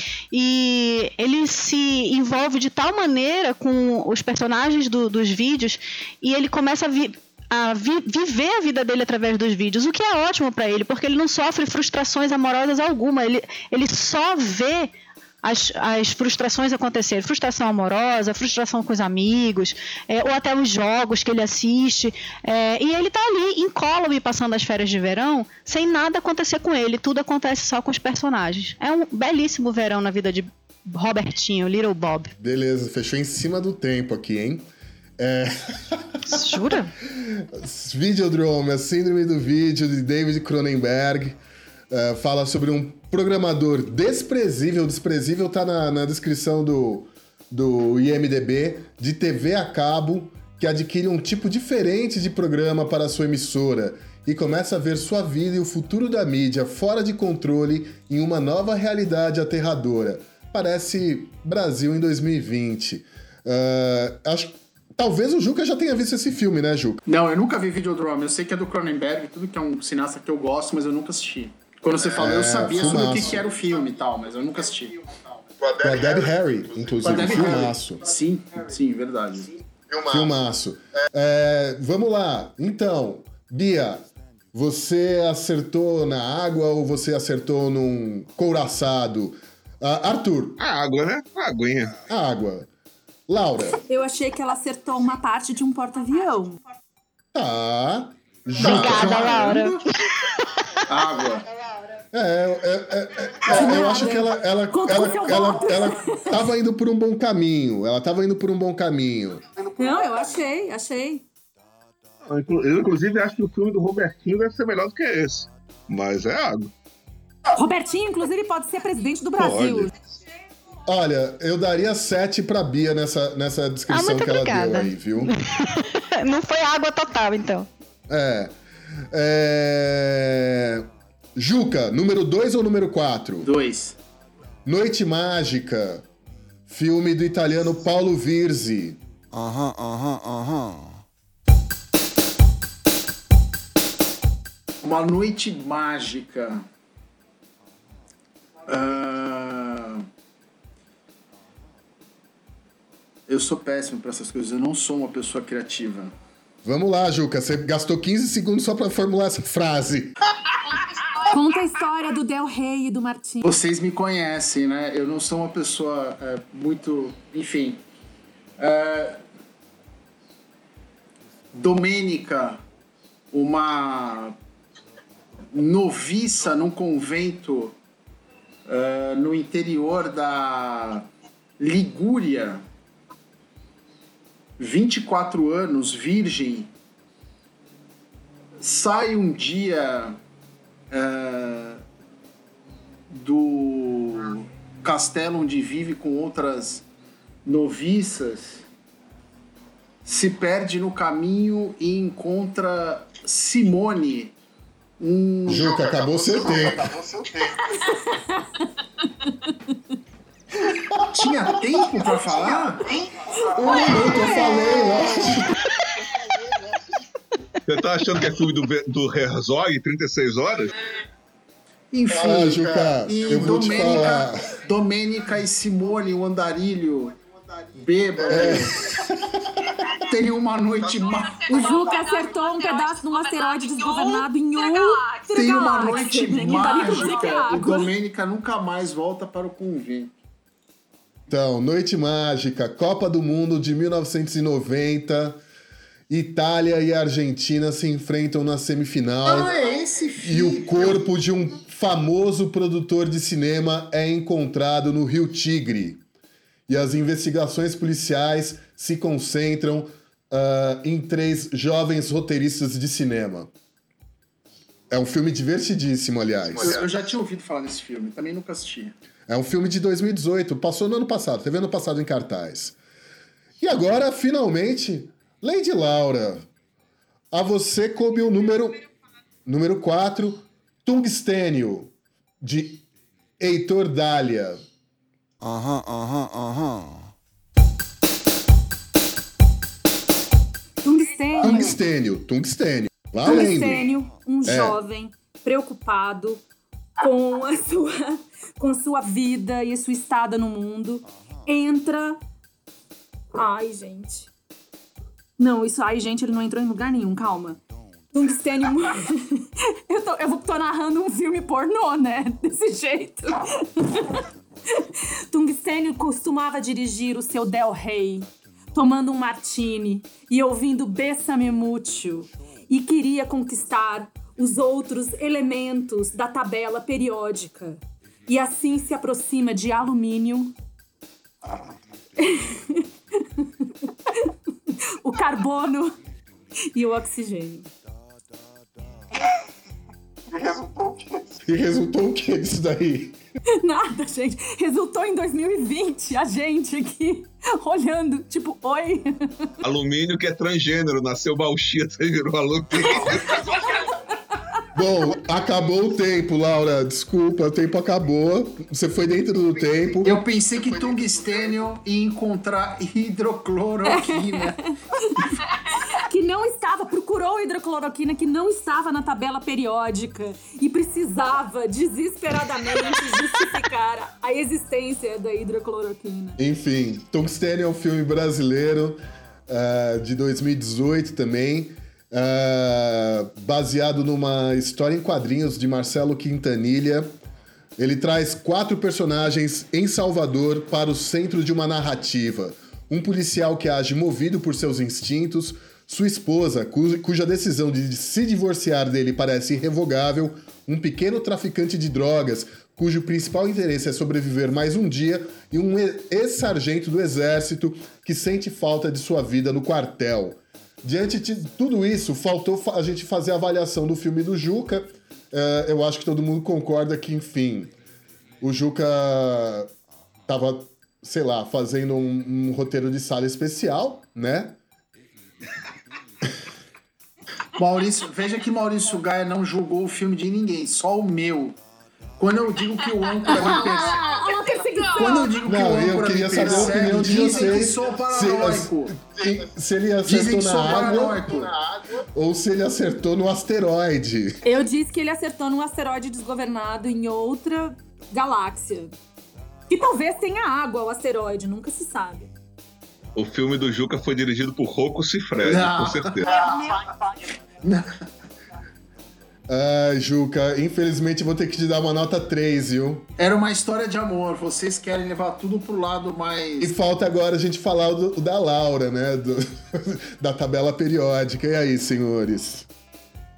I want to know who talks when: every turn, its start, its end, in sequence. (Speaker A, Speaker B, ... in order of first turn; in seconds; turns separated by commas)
Speaker A: 0.3-14.9, Speaker A: 15.4-32.3, Speaker B: 32.4-34.7, Speaker B: 35.2-41.4, Speaker A: 36.2-36.9, Speaker B: 41.9-67.0, Speaker C: 67.1-75.0, Speaker B: 72.0-73.5, Speaker B: 75.7-78.0, Speaker C: 77.0-79.5, Speaker B: 79.9-90.6, Speaker D: 90.6-92.0, Speaker B: 92.1-92.7, Speaker B: 93.3-93.8, Speaker E: 93.8-96.6, Speaker B: 97.3-99.7, Speaker A: 98.6-100.3, Speaker C: 98.6-99.8, Speaker C: 100.9-101.5, Speaker B: 102.1-109.5, Speaker E: 103.5-106.4, Speaker E: 109.7-111.2, Speaker D: 112.3-116.7, Speaker E: 117.5-119.9, Speaker D: 119.4-119.9, Speaker B: 120.9-125.3, Speaker A: 123.9-127.7, Speaker B: 128.1-128.5, Speaker B: 129.1-133.5, Speaker C: 133.4-134.0, Speaker B: 134.7-136.1, Speaker B: 136.7-139.0, Speaker F: 139.3-141.0, Speaker C: 144.8-146.6, Speaker C: 148.7-150.1, Speaker C: 153.3-156.1, Speaker B: 156.6-160.1, Speaker E: 161.2-163.5, Speaker C: 163.4-167.8, Speaker C: 168.6-169.2, Speaker C: 171.5-172.6, Speaker C: 173.3-174.3, Speaker C: 175.5-177.8, Speaker C: 178.7-181.1, Speaker C: 181.6-182.6, Speaker C: 184.6-186.7, Speaker C: 188.6-190.2, Speaker C: 190.9-191.8, Speaker C: 193.1-196.8, Speaker C: 197.4-198.7, Speaker C: 200.1-204.3, Speaker C: 205.0-205.9, Speaker B: 205.5-207.0, Speaker E: 207.8-208.7, Speaker E: 209.2-209.5, Speaker C: 211.1-212.9, Speaker E: 213.4-215.4, Speaker B: 213.5-215.6, Speaker D: 217.7-220.7, Speaker C: 221.9-227.2, Speaker B: 222.1-224.4, Speaker C: 227.7-228.9, Speaker B: 228.2-229.7, Speaker C: 230.0-231.9, Speaker E: 231.5-237.9, Speaker C: 235.3-240.1, Speaker B: 241.3-245.4, Speaker B: 246.1-249.5, Speaker C: 249.2-251.0, Speaker B: 250.2-256.0, Speaker B: 256.7-263.5, Speaker B: 264.9-266.8, Speaker C: 266.6-269.0, Speaker B: 269.3-272.8, Speaker B: 273.6-276.5, Speaker B: 277.3-278.8, Speaker B: 279.5-282.9, Speaker B: 283.4-284.6, Speaker F: 285.4-287.1, Speaker E: 290.8-291.8, Speaker B: 291.4-293.9, Speaker E: 293.2-296.4, Speaker B: 294.4-294.8, Speaker E: 297.0-302.2, Speaker E: 303.3-304.3, Speaker E: 305.4-307.6, Speaker E: 308.1-330.5, Speaker E: 332.2-332.9, Speaker E: 333.4-335.9, Speaker E: 336.7-337.7, Speaker B: 340.4-343.2, Speaker E: 343.6-349.5, Speaker D: 349.6-353.6, Speaker B: 354.7-360.2, Speaker C: 360.0-364.6, Speaker E: 363.9-376.4, Speaker B: 376.4-387.1, Speaker B: 387.8-417.7, Speaker B: 418.4-419.7, Speaker B: 420.3-424.6, Speaker C: 427.5-431.6, Speaker C: 432.2-434.0, Speaker E: 433.3-435.3, Speaker C: 434.9-439.0, Speaker B: 435.4-444.4, Speaker C: 440.1-441.6, Speaker E: 444.4-448.9, Speaker E: 449.7-452.3, Speaker D: 453.2-456.3, Speaker C: 455.4-456.9, Speaker C: 457.6-457.9, Speaker B: 459.5-463.1, Speaker C: 463.2-466.7, Speaker B: 466.6-472.7